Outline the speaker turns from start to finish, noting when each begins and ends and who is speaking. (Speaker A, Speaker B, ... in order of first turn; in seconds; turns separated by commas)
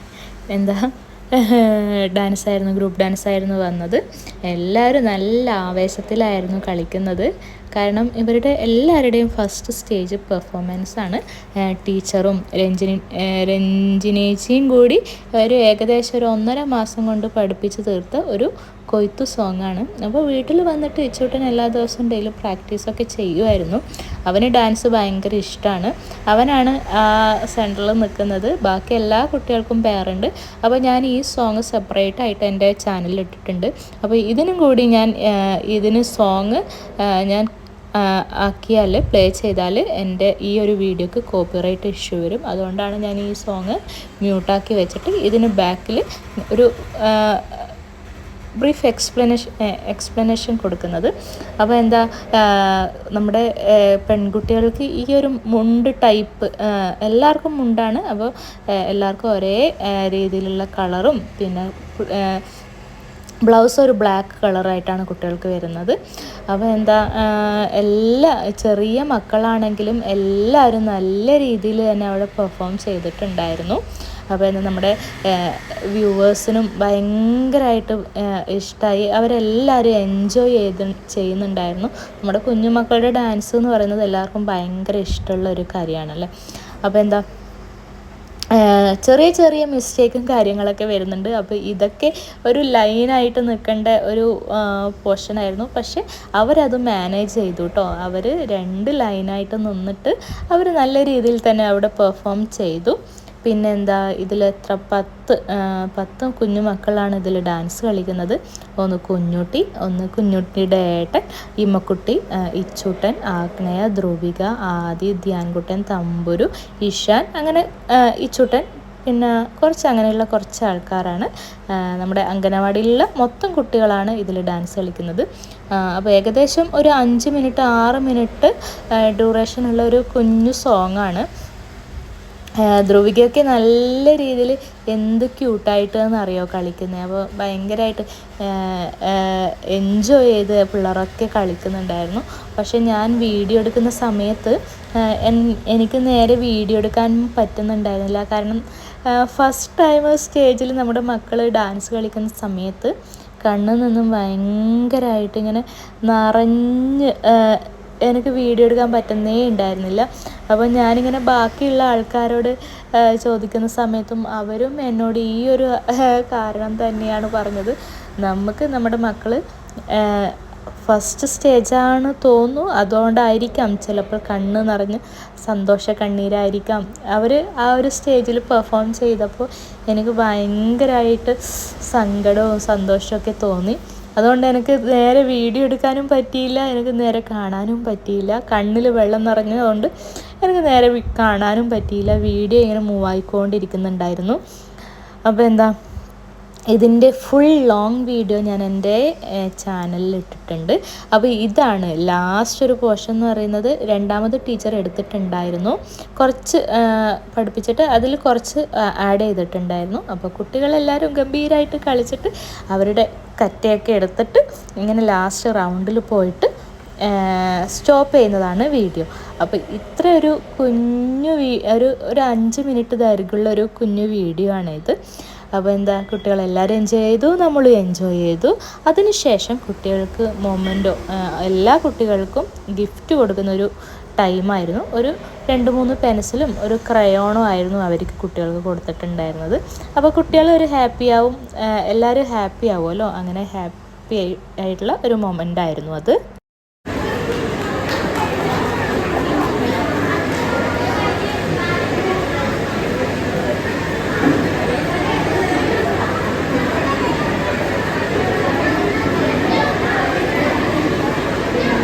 Speaker A: 0.5-47.7, Speaker A: 48.6-62.4, Speaker A: 63.5-66.0, Speaker A: 66.5-86.3, Speaker A: 86.8-87.2, Speaker A: 88.5-131.3, Speaker A: 132.6-152.9, Speaker A: 153.4-169.4, Speaker A: 169.9-189.9, Speaker A: 190.4-194.4, Speaker A: 195.3-195.7, Speaker A: 196.7-216.5, Speaker A: 217.0-225.0, Speaker A: 225.6-246.2